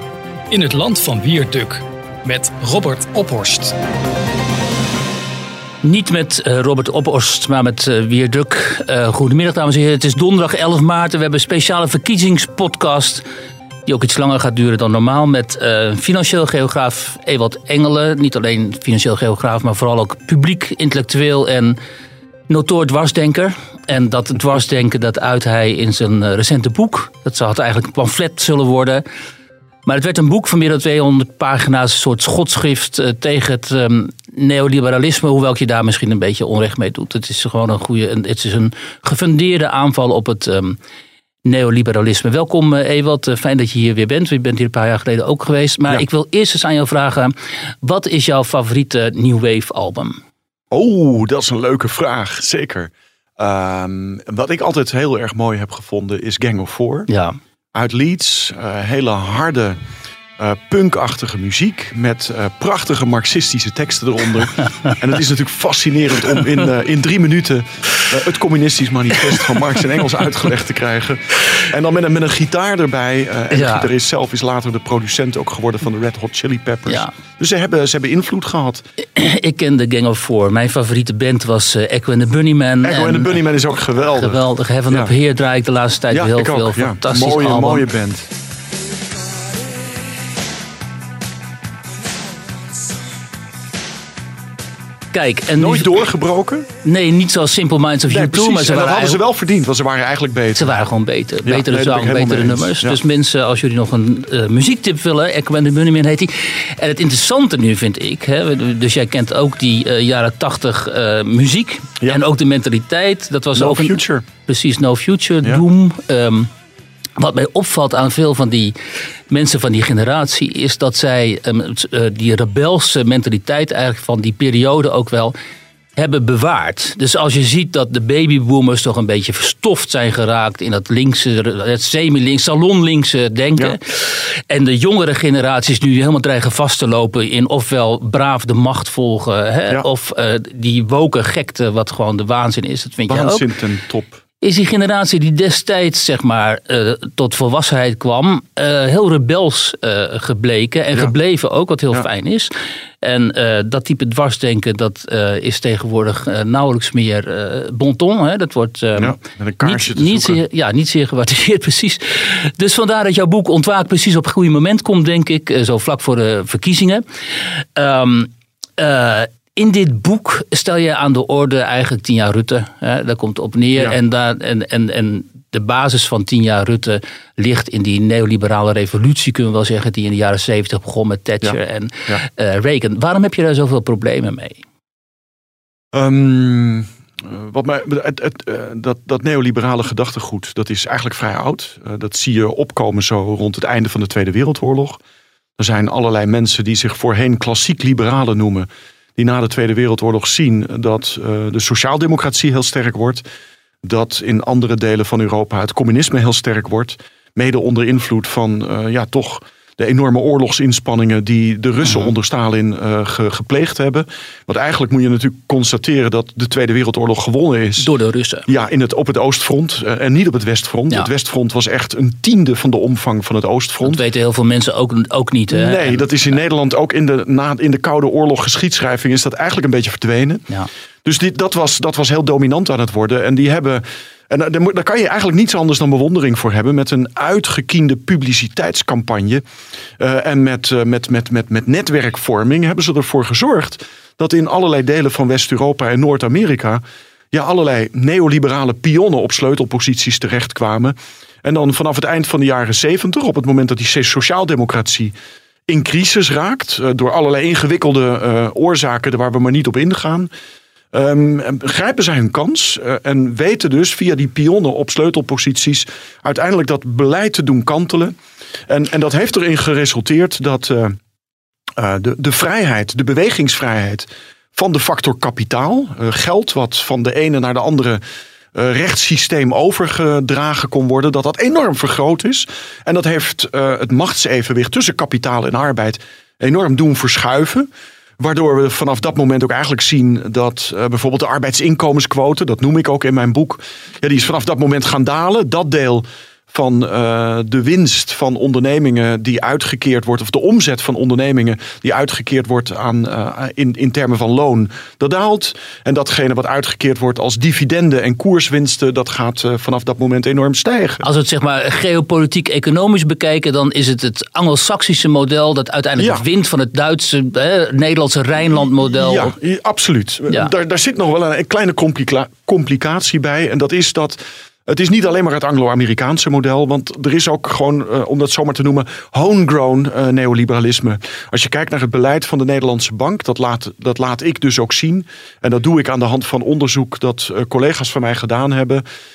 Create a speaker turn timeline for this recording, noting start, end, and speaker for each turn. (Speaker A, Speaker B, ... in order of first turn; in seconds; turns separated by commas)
Speaker A: 0.5-3.8, Speaker B: 5.8-13.2, Speaker B: 13.9-21.8, Speaker B: 22.5-29.0, Speaker B: 29.9-40.8, Speaker B: 41.5-50.2, Speaker C: 50.7-57.1, Speaker B: 57.1-57.4, Speaker C: 57.7-59.8, Speaker C: 60.4-78.8, Speaker B: 73.5-73.9, Speaker B: 76.9-77.1, Speaker B: 79.1-83.4, Speaker C: 82.8-85.1, Speaker B: 84.1-87.8, Speaker C: 86.1-88.3, Speaker B: 95.1-95.9, Speaker C: 95.6-96.7, Speaker B: 96.8-99.2, Speaker C: 98.1-100.7, Speaker B: 100.6-116.5, Speaker C: 101.5-103.0, Speaker C: 113.5-114.2, Speaker B: 117.2-118.7, Speaker B: 119.3-125.3, Speaker B: 126.0-143.4, Speaker C: 143.1-144.2, Speaker B: 144.4-167.0, Speaker C: 159.0-160.4, Speaker B: 167.6-184.6, Speaker C: 181.4-182.2, Speaker C: 185.9-195.0, Speaker C: 195.6-203.2, Speaker C: 203.8-217.9, Speaker B: 217.8-218.5, Speaker C: 218.5-224.0, Speaker B: 223.8-226.1, Speaker C: 225.5-230.4, Speaker C: 231.1-239.4, Speaker C: 240.0-255.1, Speaker C: 255.7-260.3, Speaker C: 260.9-268.1, Speaker C: 268.7-271.0, Speaker C: 271.8-278.0, Speaker C: 278.5-311.0, Speaker B: 311.0-319.3, Speaker C: 316.0-316.2, Speaker C: 318.4-338.8